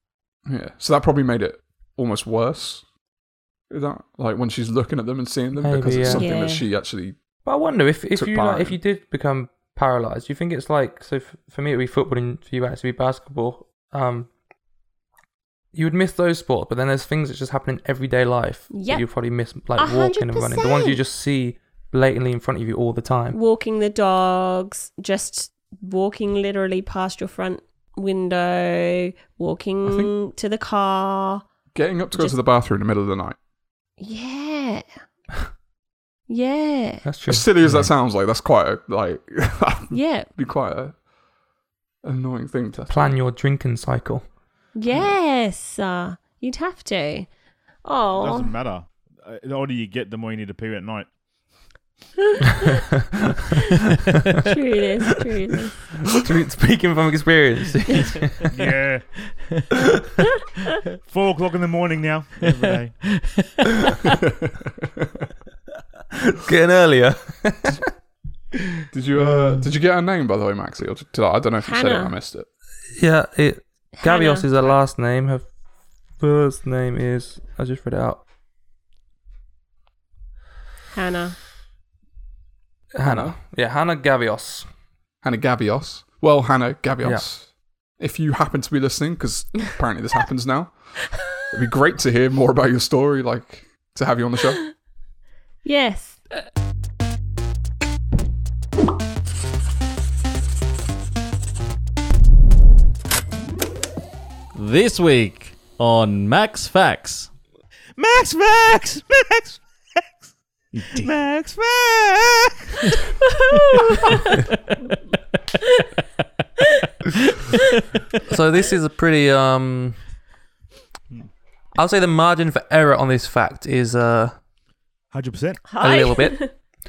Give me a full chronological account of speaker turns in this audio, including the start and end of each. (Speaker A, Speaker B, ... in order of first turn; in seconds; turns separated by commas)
Speaker A: 0.5-2.8, Speaker A: 3.7-7.2, Speaker B: 5.6-6.3, Speaker C: 6.0-6.7, Speaker B: 7.5-14.3, Speaker A: 8.2-8.8, Speaker B: 15.7-23.4, Speaker C: 18.7-19.0, Speaker C: 19.8-21.0, Speaker C: 23.3-31.4, Speaker A: 29.9-30.1, Speaker A: 31.7-33.4, Speaker C: 34.0-34.9, Speaker C: 36.3-37.0, Speaker B: 37.0-37.5, Speaker A: 37.3-41.0, Speaker D: 37.6-37.9, Speaker C: 39.9-40.3, Speaker A: 42.0-43.1, Speaker B: 42.9-44.2, Speaker C: 44.8-47.3, Speaker C: 47.9-48.5, Speaker E: 48.1-51.1, Speaker C: 52.4-52.7, Speaker C: 54.4-55.8, Speaker B: 56.1-58.5, Speaker E: 58.5-59.1, Speaker E: 61.0-63.0, Speaker D: 62.5-63.6, Speaker A: 64.0-65.1, Speaker B: 66.2-67.9, Speaker A: 68.9-72.5, Speaker C: 71.6-72.1, Speaker B: 73.0-75.5, Speaker C: 74.0-74.5, Speaker B: 76.2-78.2, Speaker C: 80.9-81.4, Speaker B: 82.9-84.7, Speaker A: 83.0-83.4, Speaker A: 85.2-87.5, Speaker A: 88.0-90.7, Speaker A: 91.4-94.7, Speaker C: 95.7-96.2, Speaker D: 104.5-107.3, Speaker E: 108.0-109.7, Speaker D: 110.8-111.1, Speaker E: 110.9-113.0, Speaker C: 113.4-114.3, Speaker B: 118.2-120.0, Speaker B: 121.8-124.4, Speaker E: 125.1-125.6, Speaker C: 125.7-126.5, Speaker B: 125.8-126.6